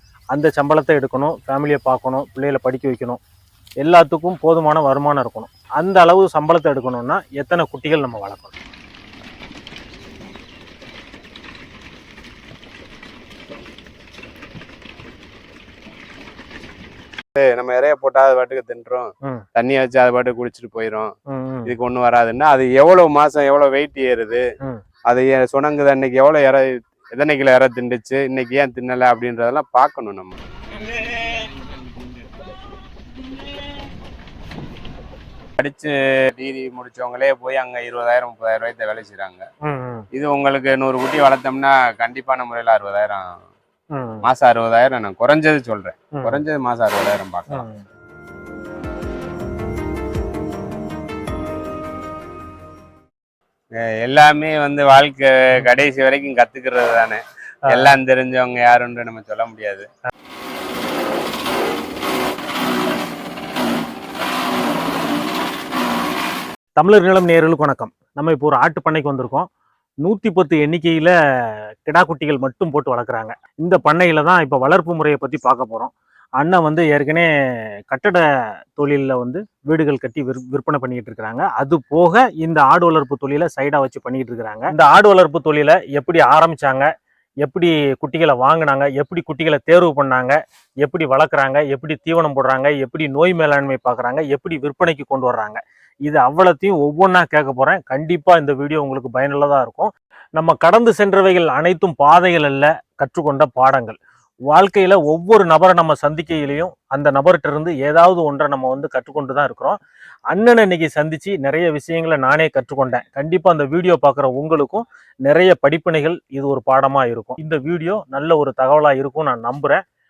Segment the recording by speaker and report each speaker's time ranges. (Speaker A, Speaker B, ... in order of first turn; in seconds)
Speaker A: 0.3-3.2, 3.8-8.6, 21.3-21.8, 39.6-40.1, 43.9-44.3, 46.1-46.4, 47.5-47.8, 57.7-58.0, 66.8-69.5, 70.0-71.2, 71.9-77.3, 77.9-78.2, 78.8-86.9, 87.4-104.0, 104.5-109.8, 110.3-119.8
Speaker B: 17.4-21.1, 21.7-24.4, 25.1-30.4, 35.6-39.4, 40.1-43.4, 44.2-47.7, 53.9-59.9